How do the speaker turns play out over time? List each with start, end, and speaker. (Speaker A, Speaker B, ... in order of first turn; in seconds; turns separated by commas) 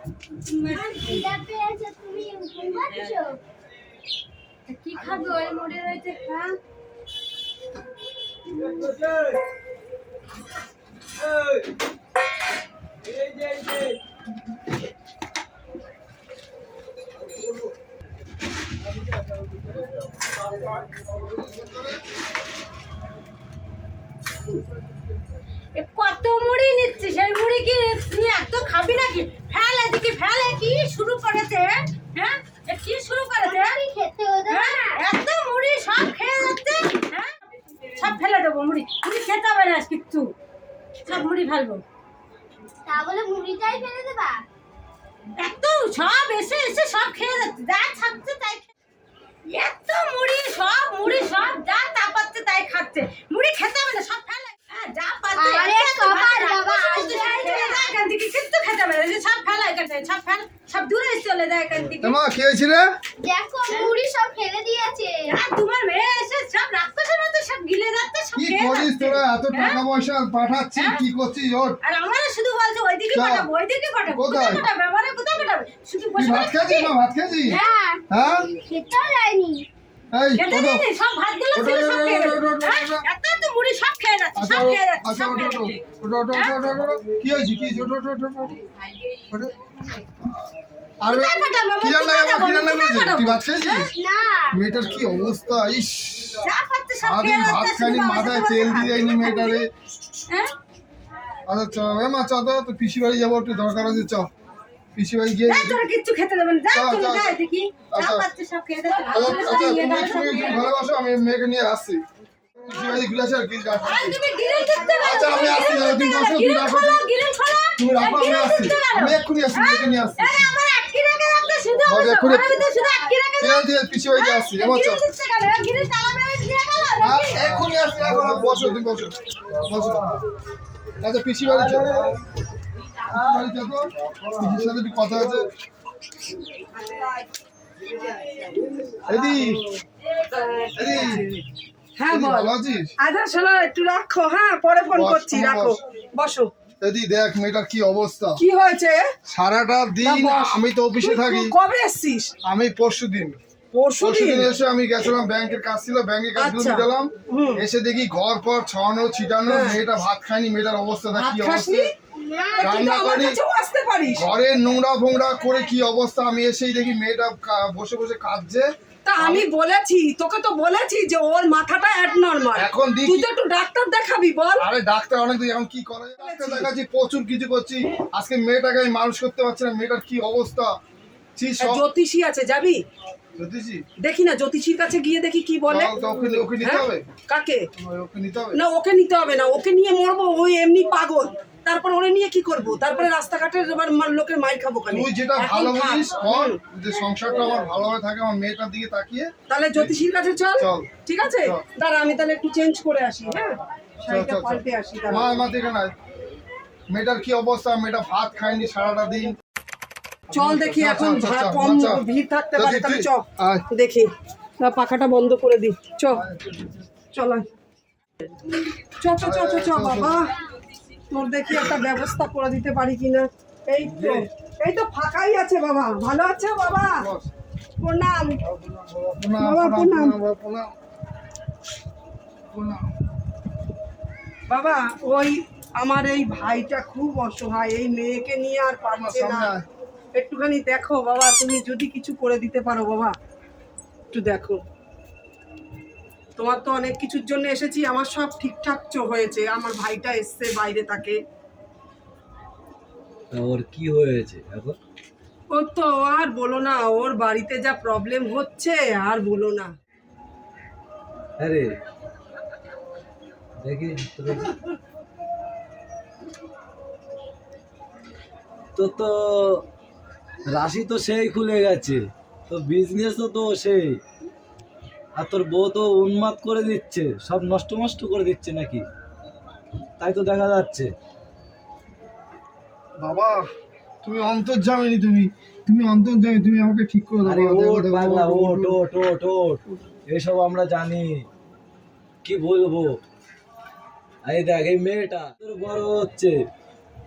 Speaker A: 0.4-1.3, Speaker B: 0.7-3.4, Speaker A: 2.9-3.2, Speaker A: 4.7-6.5, Speaker C: 8.8-9.1, Speaker C: 13.1-13.9, Speaker A: 25.7-33.8, Speaker B: 33.4-35.0, Speaker A: 34.5-40.3, Speaker A: 41.0-41.8, Speaker B: 42.8-44.4, Speaker A: 45.3-48.7, Speaker A: 49.5-62.2, Speaker B: 55.3-57.9, Speaker D: 62.0-62.9, Speaker B: 63.2-65.3, Speaker A: 63.7-63.9, Speaker A: 65.3-69.8, Speaker D: 68.3-71.8, Speaker A: 70.8-71.0, Speaker A: 71.8-76.9, Speaker D: 73.1-73.5, Speaker D: 74.1-74.7, Speaker D: 76.2-77.6, Speaker A: 77.5-77.7, Speaker B: 77.5-79.7, Speaker D: 78.1-78.5, Speaker D: 80.1-80.9, Speaker A: 80.3-86.6, Speaker D: 81.5-83.0, Speaker D: 84.3-88.6, Speaker D: 91.0-93.9, Speaker A: 91.0-93.8, Speaker B: 93.8-94.6, Speaker D: 94.5-96.4, Speaker A: 96.4-99.6, Speaker D: 97.0-99.7, Speaker D: 101.5-104.3, Speaker D: 104.9-105.8, Speaker A: 105.5-110.7, Speaker D: 106.7-107.4, Speaker D: 107.9-108.3, Speaker D: 109.1-112.0, Speaker D: 112.5-114.2, Speaker A: 112.7-113.0, Speaker A: 113.8-127.4, Speaker D: 115.0-117.1, Speaker D: 117.8-120.5, Speaker D: 121.8-122.6, Speaker D: 123.4-125.0, Speaker D: 127.0-130.2, Speaker C: 127.4-128.6, Speaker C: 129.7-130.2, Speaker D: 131.0-132.2, Speaker C: 131.4-132.2, Speaker C: 133.1-133.4, Speaker D: 133.1-135.5, Speaker C: 134.0-134.6, Speaker D: 139.1-139.6, Speaker A: 140.3-140.9, Speaker E: 140.6-141.4, Speaker D: 140.7-141.3, Speaker E: 142.0-146.5, Speaker D: 142.1-142.9, Speaker D: 144.9-145.8, Speaker D: 146.8-148.4, Speaker E: 148.3-149.0, Speaker D: 149.2-151.5, Speaker E: 150.0-152.3, Speaker D: 152.4-153.4, Speaker E: 153.7-154.5, Speaker D: 154.0-161.9, Speaker E: 156.3-157.6, Speaker E: 159.4-159.8, Speaker E: 161.1-161.9, Speaker B: 162.2-162.6, Speaker E: 162.5-164.2, Speaker D: 162.6-163.4, Speaker D: 164.2-169.5, Speaker E: 169.0-174.6, Speaker D: 172.5-173.3, Speaker D: 174.6-180.8, Speaker E: 176.2-176.7, Speaker D: 181.3-181.8, Speaker E: 181.6-182.8, Speaker D: 183.3-183.8, Speaker E: 184.0-187.7, Speaker D: 185.7-187.1, Speaker D: 187.7-188.6, Speaker E: 188.5-196.6, Speaker D: 194.9-199.9, Speaker E: 199.5-205.3, Speaker D: 200.6-200.9, Speaker D: 204.0-205.9, Speaker D: 206.9-209.3, Speaker D: 210.3-212.0, Speaker E: 210.3-214.1, Speaker D: 212.6-213.7, Speaker E: 214.6-216.2, Speaker D: 216.1-216.8, Speaker E: 217.1-217.4, Speaker E: 219.0-220.3, Speaker D: 219.2-220.3, Speaker E: 221.1-227.1, Speaker D: 223.8-224.3, Speaker D: 227.0-227.3, Speaker E: 227.8-228.4, Speaker D: 228.4-230.7, Speaker E: 229.4-230.2, Speaker D: 232.5-232.9, Speaker E: 234.5-239.5, Speaker D: 238.9-239.7, Speaker E: 240.1-243.1, Speaker E: 244.1-244.6, Speaker E: 246.3-251.2, Speaker C: 253.3-254.8, Speaker E: 255.5-259.7, Speaker C: 261.4-261.6, Speaker C: 263.6-264.6, Speaker C: 268.8-269.6, Speaker C: 270.4-274.0, Speaker C: 275.2-278.8, Speaker C: 280.0-280.9, Speaker D: 283.0-283.5, Speaker D: 284.0-288.8, Speaker C: 287.2-291.1, Speaker C: 292.2-292.9, Speaker C: 294.2-296.4